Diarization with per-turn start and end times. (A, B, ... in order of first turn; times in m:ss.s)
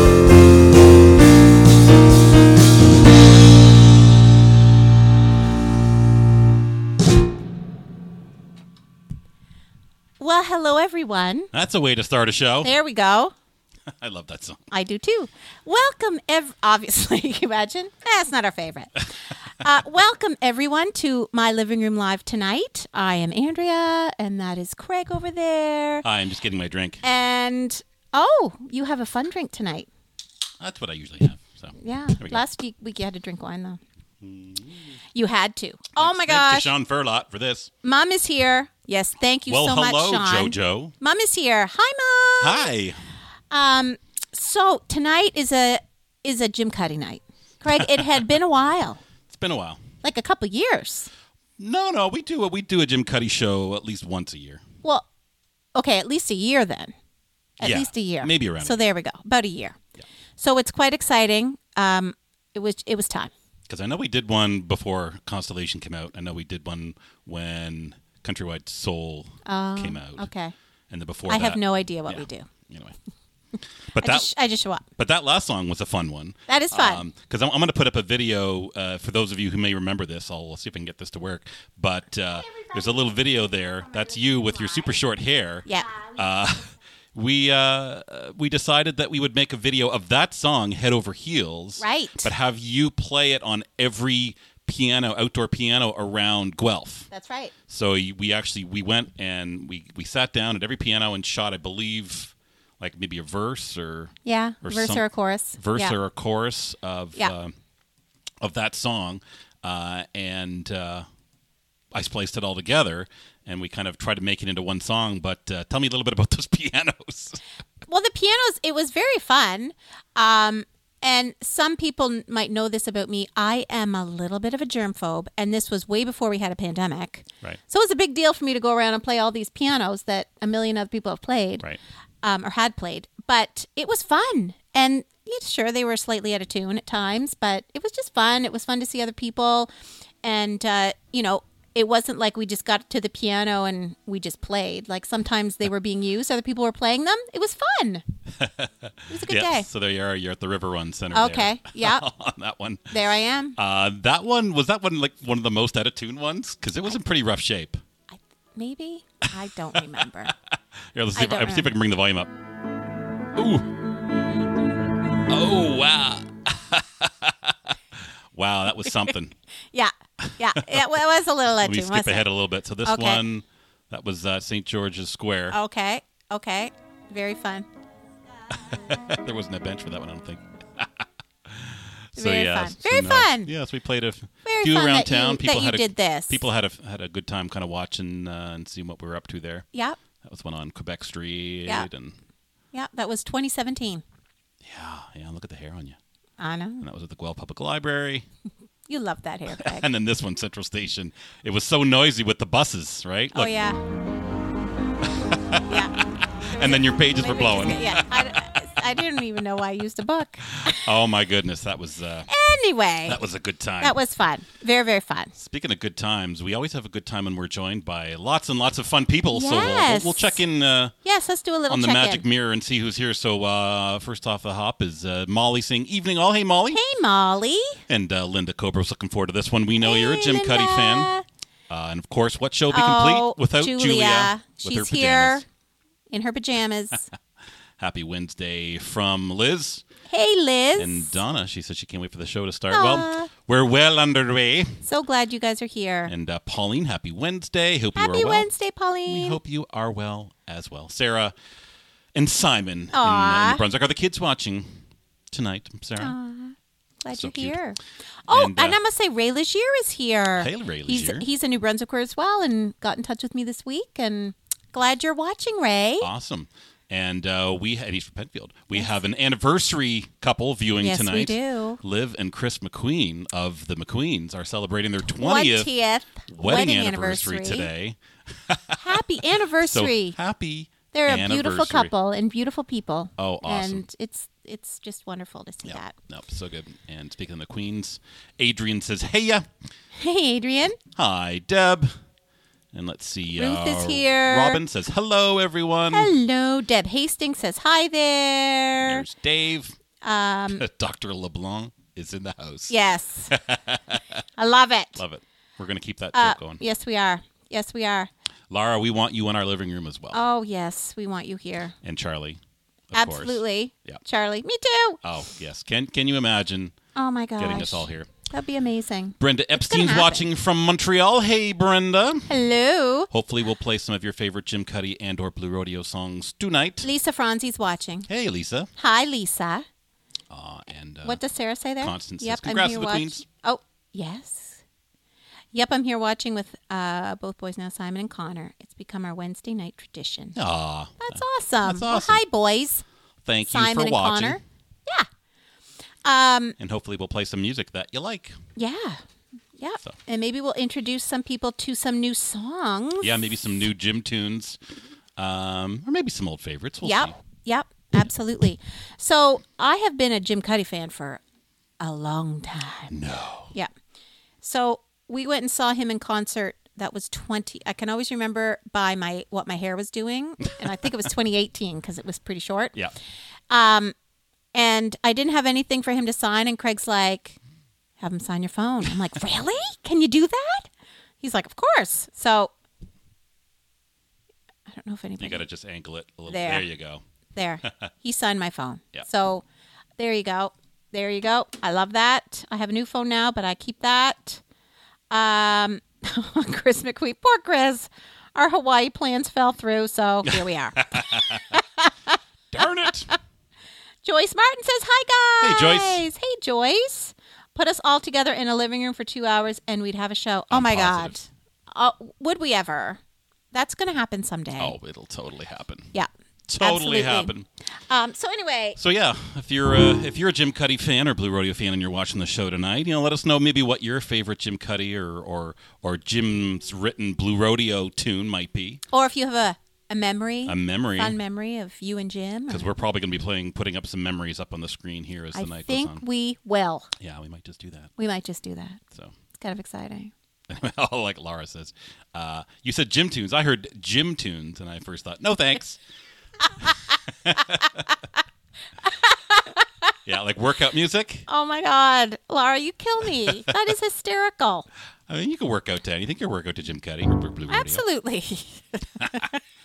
0:10.2-0:11.5 A
0:11.5-0:12.7 B
0:12.6-0:13.3 A
0:13.9-0:14.7 B
0:14.7-0:19.0 A
0:19.6-0:26.0 A
0:26.0-0:27.0 B
0:27.0-0:29.9 A
0:30.6-0:32.4 B
0:31.8-0:33.8 A
0:34.2-0:35.0 B
0:35.1-0:36.7 A
0:35.9-0:37.7 B
0:37.8-0:42.7 A
0:39.5-0:40.9 B
0:42.4-0:43.0 B
0:43.5-0:49.0 A
0:47.7-0:48.2 B
0:49.3-0:49.8 B
0:50.0-0:51.1 A
0:51.6-0:54.6 B
0:55.7-0:56.9 A
0:57.6-0:59.8 A
0:57.6-0:58.8 B
1:00.4-1:03.3 A
1:03.7-1:10.3 B
1:09.4-1:10.5 A
1:10.9-1:13.0 B
1:11.3-1:12.5 A
1:13.9-1:14.8 A
1:14.0-1:14.3 B
1:15.0-1:37.1 B
1:16.5-1:17.0 A
1:25.6-1:26.0 A
1:31.8-1:32.3 A
1:37.1-1:37.5 A
1:37.7-1:45.0 B
1:44.2-1:45.9 A
1:45.6-1:47.5 B
1:48.4-1:51.0 B
1:51.9-1:57.4 B
1:57.9-2:11.6 A
2:12.2-2:19.7 A
2:20.2-2:28.0 A
2:28.3-2:33.0 B
2:29.1-2:29.7 A
2:31.1-2:32.0 A
2:32.9-2:33.6 A
2:33.6-2:37.8 B
2:38.1-2:40.3 A
2:39.8-2:42.3 B
2:41.1-2:41.7 A
2:43.4-2:43.6 B
2:45.3-2:49.3 B
2:48.8-2:49.1 A
2:49.7-2:52.2 A
2:50.2-2:50.8 B
2:51.6-2:55.6 B
2:52.8-2:53.2 A
2:55.5-2:57.7 A
2:58.5-3:09.6 B
3:02.2-3:03.5 A
3:04.4-3:06.4 A
3:09.7-3:10.0 A
3:10.2-3:12.2 B
3:12.7-3:14.0 A
3:14.6-3:16.0 B
3:16.4-3:16.8 A
3:16.8-3:18.3 B
3:18.9-3:19.9 A
3:19.5-3:23.5 B
3:23.3-3:23.8 A
3:25.0-3:25.8 B
3:25.7-3:25.9 A
3:26.4-3:28.4 B
3:26.5-3:30.9 A
3:30.6-3:32.3 B
3:32.3-3:33.2 A
3:33.0-3:34.0 B
3:33.8-3:35.3 A
3:35.3-3:40.9 B
3:39.3-3:40.4 A
3:41.0-3:42.2 A
3:41.7-3:46.8 B
3:46.7-3:47.8 A
3:47.9-3:51.1 B
3:49.8-3:51.2 A
3:51.7-3:55.4 B
3:52.7-3:55.4 A
3:56.1-3:57.0 A
3:57.8-3:59.8 B
4:00.1-4:01.2 A
4:00.8-4:04.8 B
4:02.7-4:03.3 A
4:04.8-4:06.1 A
4:06.1-4:08.5 B
4:08.0-4:09.4 A
4:09.1-4:11.3 B
4:12.1-4:14.8 B
4:12.9-4:13.6 A
4:15.3-4:16.1 B
4:16.0-4:26.1 A
4:17.1-4:17.6 B
4:18.3-4:18.8 B
4:20.4-4:21.2 B
4:26.0-4:35.7 B
4:30.8-4:31.8 A
4:35.2-4:37.7 A
4:36.3-4:38.8 B
4:38.8-4:40.2 A
4:39.6-4:41.9 B
4:40.9-4:45.9 A
4:43.2-4:43.9 B
4:45.6-4:49.5 B
4:50.0-4:50.8 A
4:50.9-4:51.9 B
4:52.7-4:56.1 B
4:53.3-4:54.6 A
4:55.9-4:59.1 A
4:58.8-4:59.8 B
5:00.0-5:00.6 A
5:00.5-5:02.8 B
5:02.7-5:03.3 A
5:03.3-5:04.2 B
5:04.4-5:05.0 A
5:05.0-5:06.6 B
5:06.1-5:08.1 A
5:08.5-5:10.2 B
5:10.1-5:11.7 A
5:11.8-5:12.4 B
5:12.9-5:14.0 B
5:12.9-5:15.0 A
5:15.0-5:16.7 B
5:17.0-5:20.3 A
5:17.4-5:18.1 B
5:19.2-5:22.3 B
5:22.3-5:23.1 A
5:23.1-5:26.9 B
5:26.8-5:28.1 A
5:28.1-5:28.7 B
5:28.8-5:29.6 A
5:30.3-5:31.2 B
5:31.0-5:34.6 A
5:31.8-5:33.2 B
5:35.5-5:40.4 A
5:40.4-5:42.2 B
5:41.0-5:42.8 A
5:43.2-5:44.4 B
5:43.4-5:45.1 A
5:46.0-5:46.6 A
5:46.6-5:48.4 B
5:48.6-5:49.0 A
5:49.6-5:53.3 A
5:53.0-5:54.6 B
5:55.2-5:57.2 B
5:56.8-6:01.2 A
6:01.8-6:02.9 A
6:02.9-6:03.5 B
6:04.4-6:12.8 A
6:13.5-6:13.9 A
6:14.5-6:17.4 A
6:18.0-6:22.5 A
6:24.7-6:25.4 A
6:25.2-6:27.0 B
6:26.3-6:26.6 A
6:27.3-6:29.4 A
6:30.0-6:34.4 A
6:35.1-6:41.9 A
6:40.2-6:41.6 B
6:42.5-6:43.1 B
6:44.0-6:53.0 A
6:45.4-6:46.0 B
6:50.5-6:51.2 B
6:53.5-6:54.8 A
6:54.6-6:55.9 B
6:56.5-6:57.5 B
6:56.6-6:57.3 A
6:57.9-6:58.8 A
6:58.8-7:08.8 B
7:08.9-7:12.7 A
7:10.4-7:11.2 B
7:12.5-7:16.0 B
7:15.3-7:16.9 A
7:17.0-7:17.9 B
7:18.0-7:18.8 A
7:19.4-7:20.1 A
7:20.5-7:25.8 B
7:27.1-7:27.8 B
7:28.8-7:29.7 A
7:30.0-7:31.3 B
7:31.3-7:34.7 A
7:33.3-7:33.6 B
7:35.1-7:37.8 B
7:37.5-7:39.4 A
7:39.0-7:39.3 B